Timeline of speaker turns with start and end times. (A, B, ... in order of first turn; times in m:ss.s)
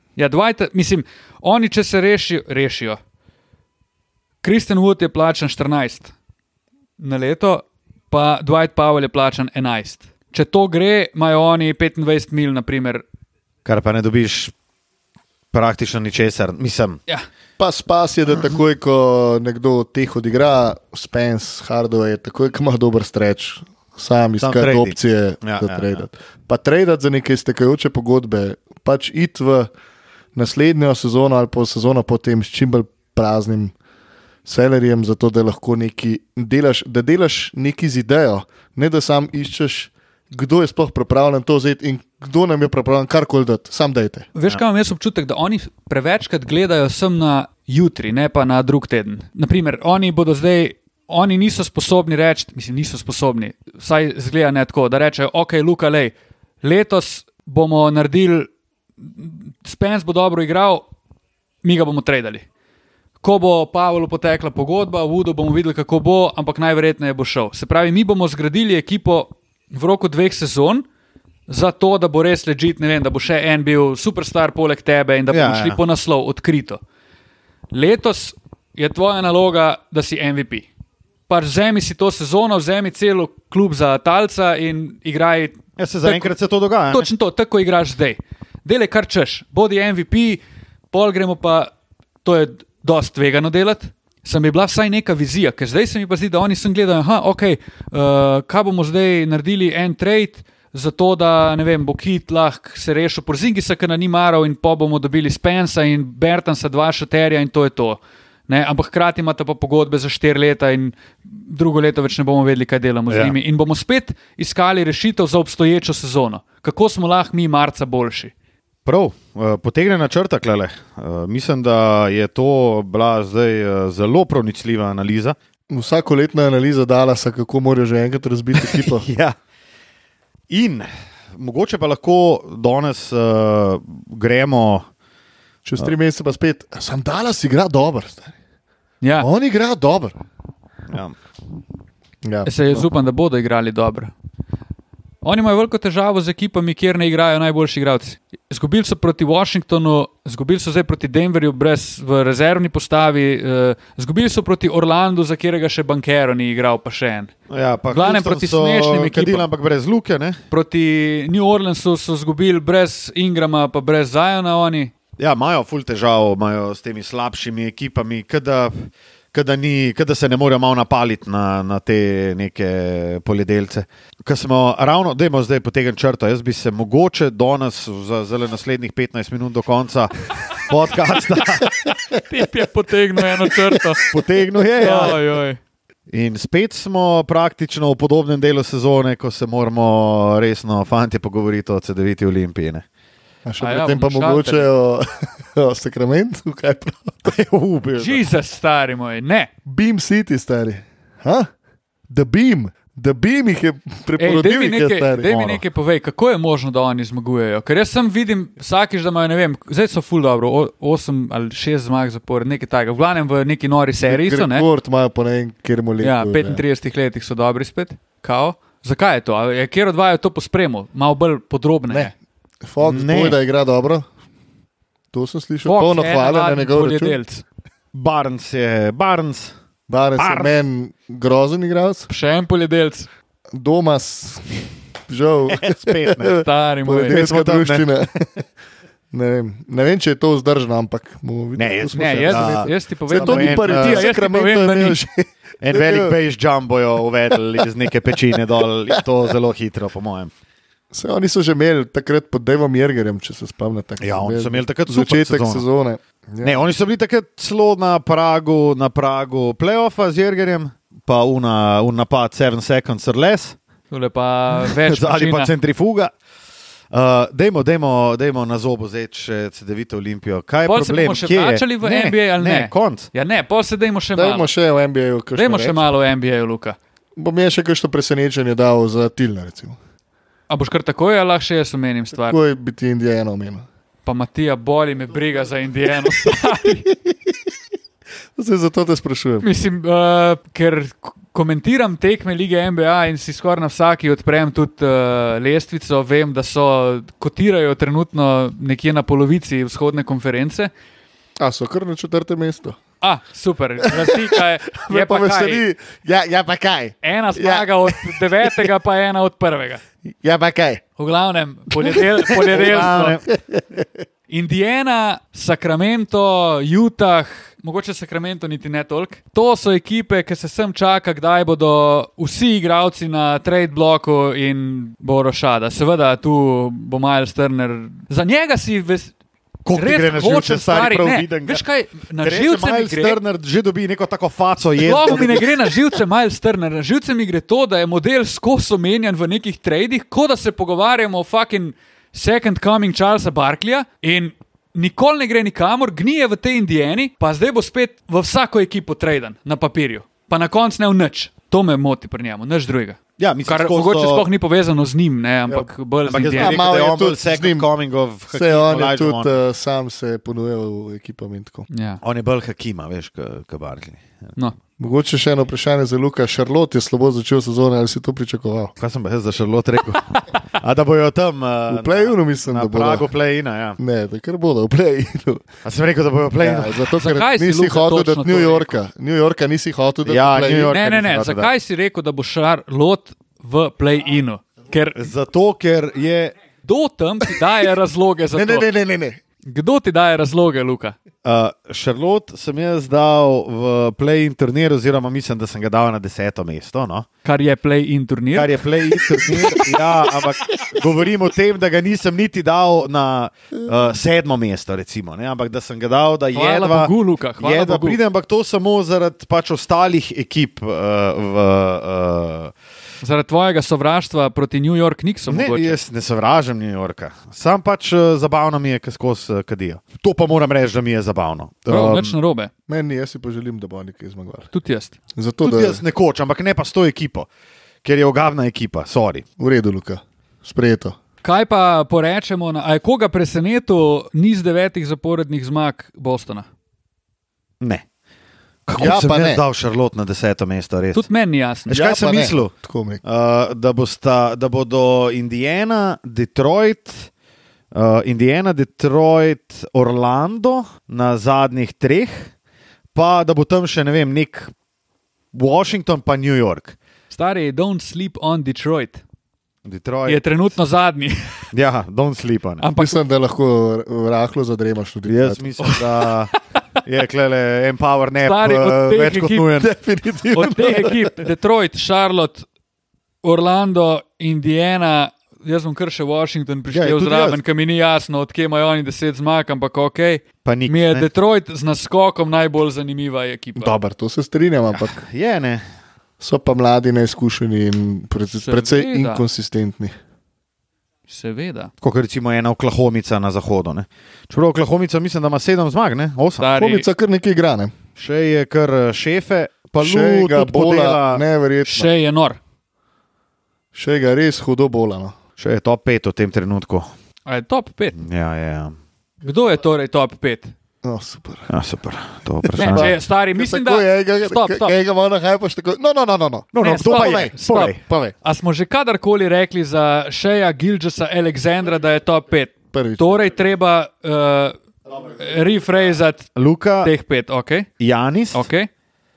0:00.2-0:03.0 A
0:04.4-0:06.1 A
0:07.0-0:13.0 A
0:13.6-0:14.5 B
0:15.5-0:17.0 B
0:17.6-0:29.7 C
0:24.4-0:26.0 B
0:30.4-0:33.7 C
0:34.5-0:44.3 C
0:44.4-0:58.5 A
0:59.0-1:00.8 A
1:01.6-1:02.4 A
1:03.2-1:10.8 A
1:11.5-1:16.8 A
1:15.3-1:15.8 B
1:17.7-1:20.7 A
1:21.3-1:26.4 A
1:25.8-1:27.1 B
1:26.9-1:30.4 A
1:30.9-1:31.7 A
1:32.2-1:58.3 A
1:53.1-1:53.4 B
1:58.8-2:05.4 B
2:05.7-2:09.1 C
2:08.6-2:09.4 B
2:10.5-2:14.8 B
2:15.6-2:18.3 C
2:19.0-2:19.3 A
2:19.2-2:20.2 C
2:20.9-2:21.2 B
2:22.2-2:22.9 C
2:22.5-2:24.1 A
2:25.2-2:37.3 A
2:37.5-2:40.4 B
2:37.9-2:39.5 A
2:40.5-2:44.9 A
2:45.2-3:01.7 B
3:01.7-3:04.1 A
3:03.2-3:04.0 C
3:04.1-3:05.2 B
3:04.8-3:05.6 A
3:06.1-3:12.8 B
3:13.4-3:17.3 C
3:13.6-3:14.7 A
3:17.2-3:18.2 B
3:18.0-3:19.5 A
3:19.7-3:21.5 C
3:22.1-3:25.5 C
3:24.2-3:34.7 A
3:25.3-3:25.6 B
3:34.1-3:36.6 C
3:36.0-3:42.1 A
3:42.6-3:44.1 C
3:42.8-3:43.4 B
3:45.1-3:47.2 C
3:45.6-3:47.4 A
3:47.9-3:49.5 B
3:49.9-3:52.1 C
3:50.2-3:50.6 B
3:52.1-3:53.1 A
3:53.5-3:58.3 C
3:55.5-3:56.4 B
3:56.3-3:57.2 A
3:57.1-3:57.9 B
3:59.1-4:06.2 C
4:01.6-4:04.1 B
4:02.0-4:05.0 A
4:05.6-4:10.3 B
4:10.9-4:16.6 C
4:14.0-4:15.6 B
4:16.4-4:23.6 B
4:23.9-4:25.5 A
4:24.6-4:26.1 B
4:26.9-4:33.1 B
4:30.7-4:34.5 A
4:34.2-4:35.8 C
4:35.4-4:36.8 A
4:37.2-4:39.8 C
4:40.5-4:42.4 A
4:42.2-4:43.6 C
4:44.1-4:46.9 A
4:46.9-4:47.4 C
4:48.4-4:49.5 C
4:49.4-5:00.7 A
5:01.4-5:02.8 C
5:03.0-5:05.6 A
5:03.8-5:08.7 C
5:07.0-5:09.8 A
5:10.2-5:10.8 C
5:11.0-5:13.2 A
5:11.8-5:13.9 C
5:12.5-5:13.2 B
5:14.3-5:29.1 A
5:29.7-5:31.6 B
5:29.7-5:33.2 A
5:32.2-5:35.6 B
5:34.8-5:56.6 A
5:53.2-5:54.3 B
5:56.1-5:59.3 B
5:56.4-5:57.7 C
5:58.3-6:01.7 C
6:01.7-6:02.0 A
6:02.0-6:04.2 B
6:04.8-6:08.7 C
6:08.8-6:13.8 B
6:11.7-6:13.1 C
6:13.8-6:15.5 C
6:15.6-6:16.9 B
6:16.4-6:20.7 C
6:17.0-6:18.7 A
6:20.1-6:21.5 B
6:20.7-6:25.1 A
6:25.0-6:26.4 B
6:26.6-6:28.7 A
6:28.3-6:29.2 C
6:29.4-6:31.0 A
6:31.2-6:37.1 B
6:37.2-6:38.6 A
6:38.4-6:52.5 B
6:39.2-6:39.6 A
6:46.3-6:48.0 A
6:53.0-6:55.8 A
6:55.3-7:02.2 B
7:01.7-7:02.5 A
7:02.7-7:04.5 C
7:04.5-7:05.0 A
7:05.2-7:05.8 C
7:05.4-7:07.3 B
7:07.8-7:09.2 B
7:09.4-7:11.0 C
7:11.2-7:16.5 A
7:18.7-7:21.1 B
7:18.8-7:19.4 C
7:21.0-7:21.8 A
7:21.7-7:22.5 B
7:21.7-7:23.0 C
7:23.0-7:27.1 B
7:27.7-7:32.3 B
7:33.0-7:34.5 B
7:35.3-7:36.8 B
7:37.1-7:39.0 A
7:39.6-7:40.2 B
7:40.1-7:41.5 A
7:41.5-7:42.6 B
7:42.6-7:43.0 A
7:42.8-7:45.5 C
7:45.1-7:46.3 B
7:45.6-7:46.1 A
7:46.8-7:49.7 B
7:48.2-7:49.5 A
7:49.6-7:51.1 C
7:50.3-7:52.5 A
7:53.2-8:03.8 A
7:56.7-7:57.4 B
8:00.4-8:01.1 B
8:03.6-8:05.0 C
8:04.7-8:05.6 B
8:06.2-8:09.9 C
8:08.4-8:09.2 A
8:11.1-8:11.7 A
8:11.8-8:16.5 B
8:16.4-8:16.9 A
8:16.6-8:17.7 C
8:18.0-8:21.2 B
8:19.8-8:21.9 C
8:21.7-8:22.4 A
8:23.7-8:25.2 C
8:25.4-8:26.9 B
8:27.3-8:28.0 A
8:28.0-8:28.8 B
8:29.2-8:30.5 A
8:30.8-8:31.5 C
8:31.5-8:33.0 B
8:32.4-8:38.1 C
8:32.6-8:34.7 A
8:36.5-8:37.8 B
8:36.6-8:47.7 A
8:42.7-8:43.3 C
8:46.4-8:46.9 B
8:47.8-8:48.5 B
8:48.3-8:48.7 A